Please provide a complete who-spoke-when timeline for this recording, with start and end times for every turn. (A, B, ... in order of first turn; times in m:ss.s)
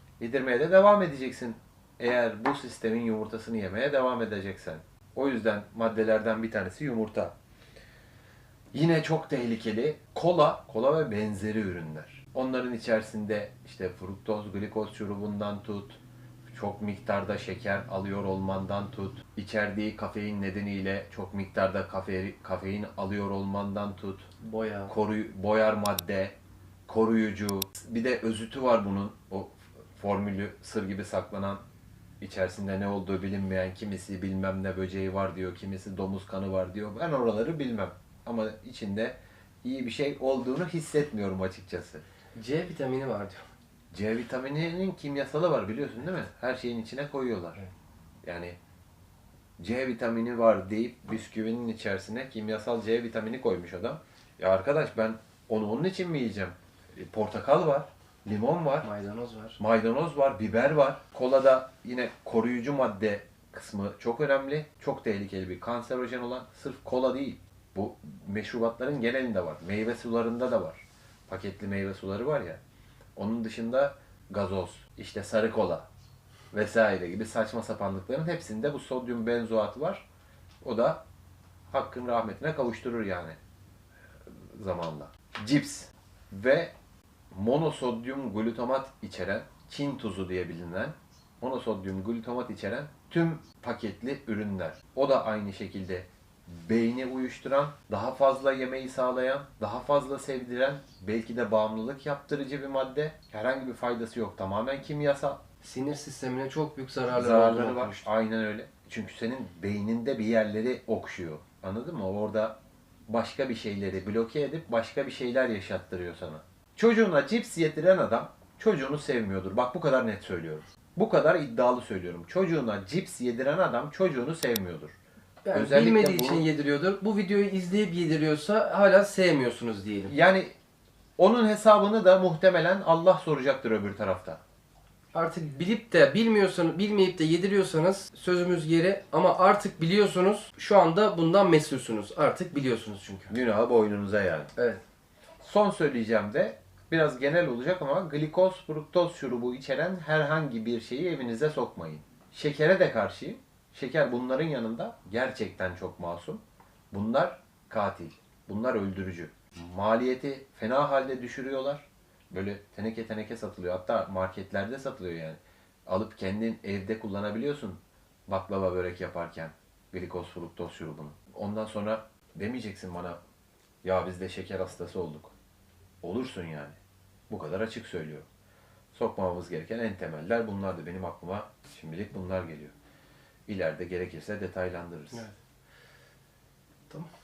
0:00.2-0:07.3 A
0:08.7-0:24.3 A
0:24.4-0:24.9 B
0:24.9-0:31.6 A
0:32.2-0:42.0 A
0:42.3-0:43.4 B
0:43.9-0:47.6 A
0:48.2-0:48.6 A
0:49.6-0:58.9 A
0:58.8-0:59.6 B
0:59.6-1:12.6 A
1:13.2-1:15.9 A
1:16.5-1:20.0 A
1:20.6-1:21.0 A
1:21.7-1:23.4 A
1:24.3-1:26.7 A
1:27.3-1:45.4 A
1:45.6-1:48.0 B
1:47.1-1:52.6 A
1:53.1-2:05.0 A
2:05.4-2:10.1 B
2:05.5-2:06.5 A
2:10.1-2:10.5 A
2:11.2-2:14.4 A
2:15.1-2:23.3 B
2:23.3-2:24.5 A
2:24.6-2:24.8 B
2:25.4-2:53.2 A
2:53.8-2:55.3 A
2:56.0-2:56.8 A
2:57.3-2:58.2 A
2:58.9-3:02.7 A
3:03.5-3:05.3 A